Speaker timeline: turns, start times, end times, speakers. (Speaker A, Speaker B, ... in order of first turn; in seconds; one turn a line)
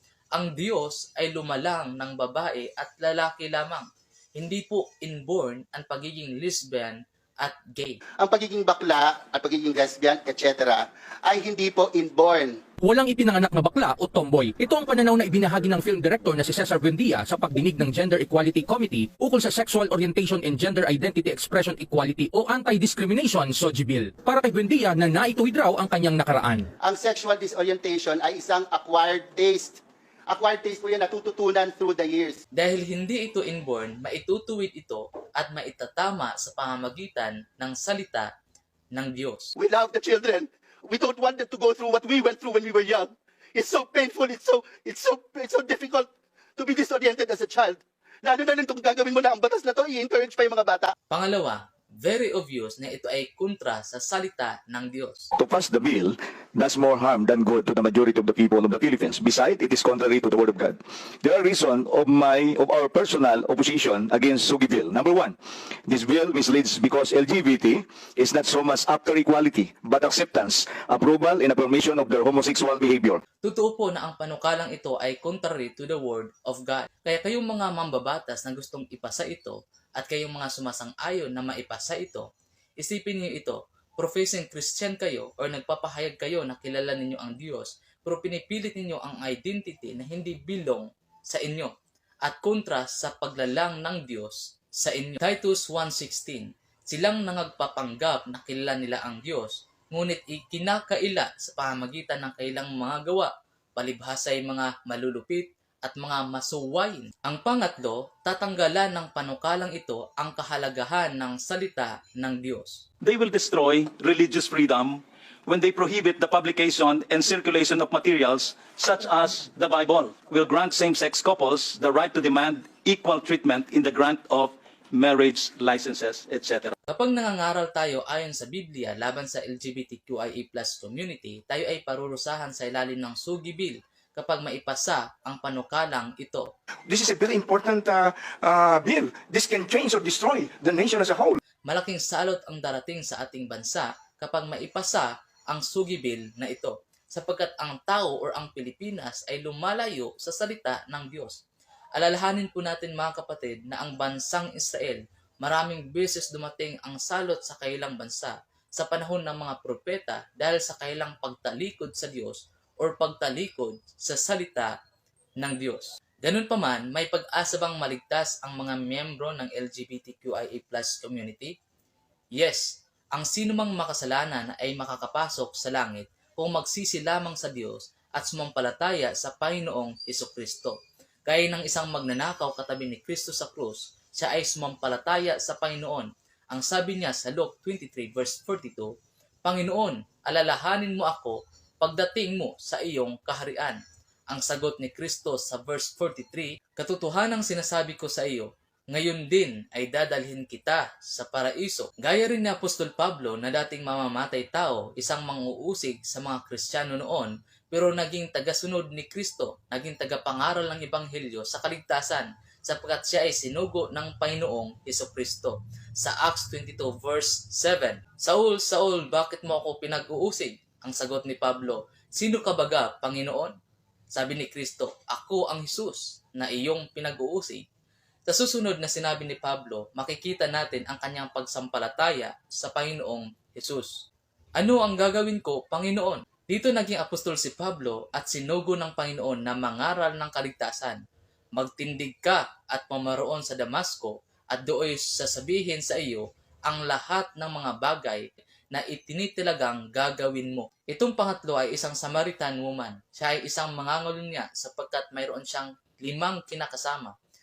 Speaker A: 0.3-8.0
Speaker B: 8.2-12.6
Speaker C: 12.8-26.7
Speaker B: 26.8-32.4
Speaker A: 32.5-38.3
Speaker A: 38.9-39.5
Speaker B: 39.5-50.9
Speaker A: 51.1-55.3
Speaker D: 55.4-65.3
Speaker D: 65.9-73.2
Speaker A: 73.4-82.2
Speaker A: 82.8-91.7
Speaker A: 92.2-112.8
Speaker E: 113.0-126.7
Speaker A: 126.9-136.5
Speaker F: 136.9-141.4
Speaker A: 141.6-151.4
Speaker A: 151.9-164.7
Speaker A: 165.4-171.6
Speaker A: 172.3-188.9
Speaker A: 189.4-193.8
Speaker A: 194.3-223.5
Speaker A: 224.1-227.6
Speaker A: 228.3-233.9
Speaker A: 234.6-241.0
Speaker A: 241.6-257.1